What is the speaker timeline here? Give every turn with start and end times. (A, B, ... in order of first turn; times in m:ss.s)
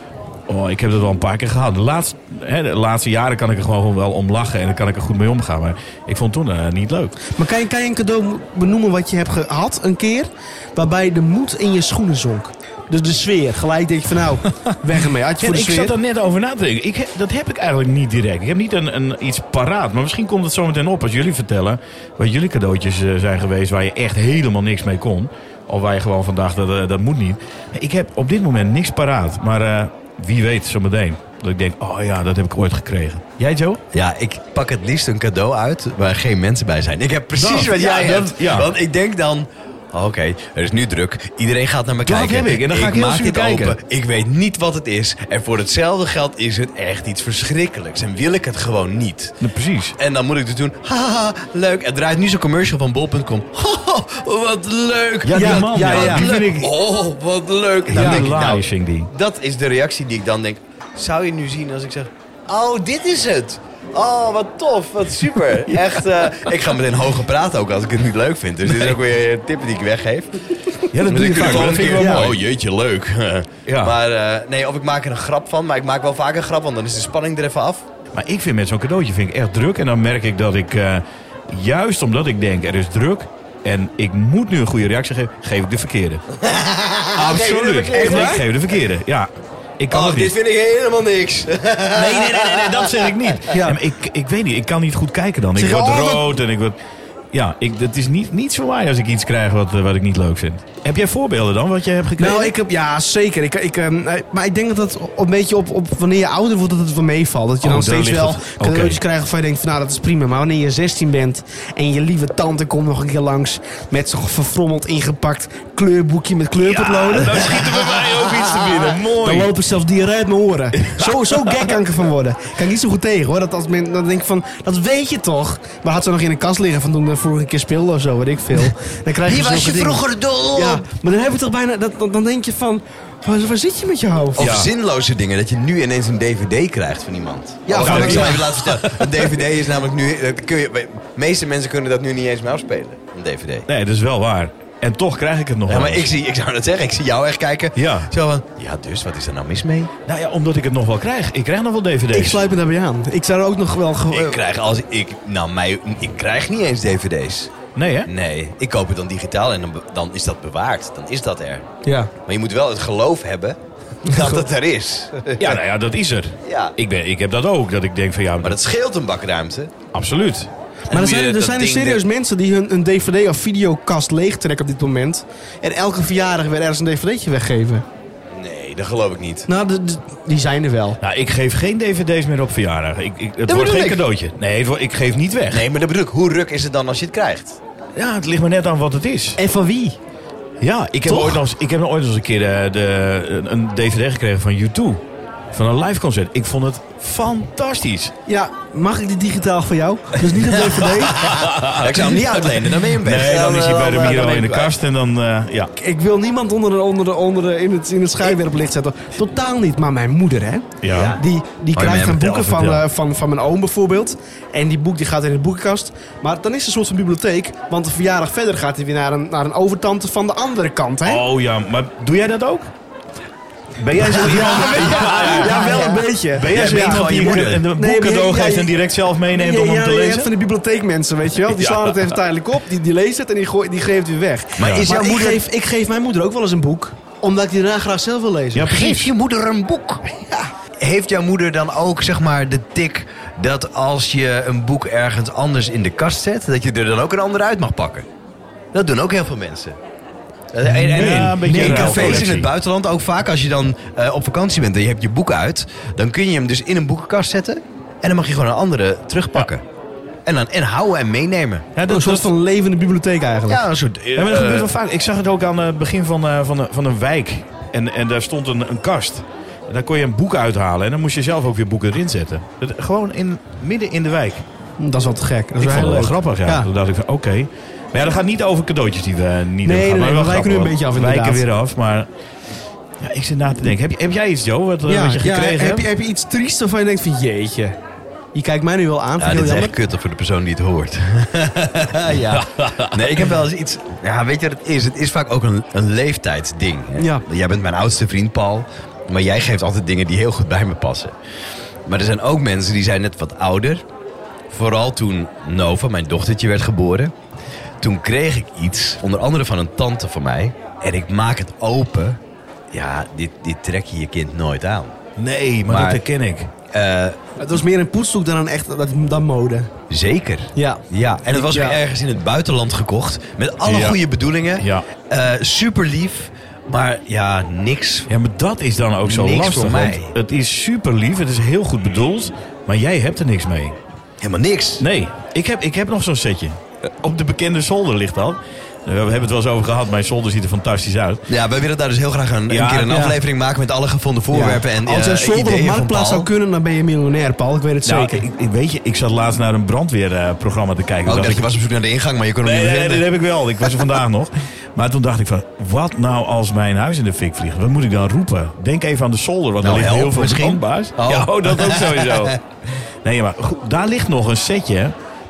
0:00.5-0:07.2 A
0:07.4-0:15.9 B
0:15.4-0:33.8 A
0:33.9-0:49.4 C
0:37.4-0:38.7 A
0:42.0-0:43.8 A
0:49.4-0:49.9 A
0:50.0-1:10.3 C
0:55.2-0:56.7 A
0:55.3-0:56.3 B
0:57.9-0:59.1 A
0:57.9-0:58.2 B
1:08.7-1:09.0 A
1:10.9-1:12.4 A
1:11.0-1:17.8 C
1:11.2-1:12.3 B
1:13.6-1:14.0 A
1:18.1-1:26.2 A
1:26.4-1:28.5 C
1:27.1-1:30.3 A
1:27.9-1:28.4 B
1:29.9-1:33.4 C
1:31.9-1:36.7 A
1:33.5-1:33.8 B
1:35.6-1:36.3 B
1:37.3-1:42.5 A
1:42.2-1:57.5 B
1:47.6-1:49.0 A
1:56.6-1:59.6 A
1:59.0-2:14.5 B
2:09.2-2:10.8 C
2:14.3-2:23.6 C
2:14.4-2:14.7 A
2:17.7-2:18.4 B
2:17.8-2:19.3 A
2:23.7-2:26.1 A
2:25.7-2:29.9 C
2:27.7-2:28.1 A
2:30.0-2:32.4 A
2:32.1-2:34.4 B
2:34.1-2:37.5 C
2:37.8-2:38.1 A
2:38.0-2:41.6 C
2:41.8-2:42.1 B
2:42.2-2:45.6 C
2:44.1-2:44.4 B
2:45.4-2:48.6 A
2:46.4-2:46.7 C
2:48.4-2:49.7 C
2:49.9-2:50.5 A
2:50.9-2:52.0 C
2:50.9-2:57.8 B
2:58.3-2:59.5 C
2:59.5-3:01.0 B
3:01.0-3:05.6 A
3:03.4-3:04.0 C
3:05.5-3:07.6 C
3:08.0-3:09.4 A
3:09.4-3:10.0 B
3:10.6-3:15.0 A
3:11.0-3:11.4 C
3:15.5-3:18.1 A
3:18.3-3:21.3 B
3:20.7-3:24.7 C
3:21.2-3:25.7 A
3:25.8-3:41.2 B
3:30.8-3:31.2 A
3:30.9-3:31.2 C
3:31.7-3:32.4 C
3:32.3-3:32.8 A
3:41.0-3:42.7 A
3:43.8-3:50.3 A
3:43.9-3:48.7 B
3:44.3-3:47.6 C
3:49.3-3:58.8 B
3:51.4-3:52.1 A
3:54.6-3:55.4 C
3:54.6-3:54.9 A
3:58.5-3:59.1 A
3:58.6-4:00.0 C
4:00.8-4:08.0 C
4:08.7-4:09.8 C
4:10.5-4:19.6 C
4:10.6-4:12.5 A
4:11.0-4:12.1 B
4:20.2-4:21.7 C
4:21.7-4:22.3 A
4:21.8-4:23.6 B
4:23.5-4:24.7 C
4:24.2-4:34.4 A
4:34.8-4:36.7 B
4:35.6-4:42.1 A
4:39.6-4:41.4 B
4:43.0-4:45.9 A
4:44.8-4:47.8 B
4:48.3-4:49.7 B
4:49.2-5:01.1 C
4:52.3-4:53.1 A
4:57.0-4:57.2 B
5:01.9-5:03.8 C
5:04.5-5:07.1 C
5:07.8-5:12.2 C
5:12.7-5:14.9 C
5:15.2-5:16.5 A
5:15.7-5:16.0 C
5:16.7-5:17.2 C
5:17.4-5:19.7 B
5:19.9-5:28.1 C
5:20.5-5:21.8 B
5:23.6-5:24.0 A
5:24.6-5:24.8 A
5:28.1-5:33.8 A
5:29.0-5:30.1 C
5:34.2-5:34.8 C
5:34.8-5:41.2 A
5:41.3-5:46.3 C
5:42.5-5:43.1 A
5:44.3-5:48.2 B
5:47.8-5:51.4 A
5:51.0-5:53.0 C
5:52.4-6:02.4 A
5:59.6-6:02.4 C
6:03.0-6:04.9 A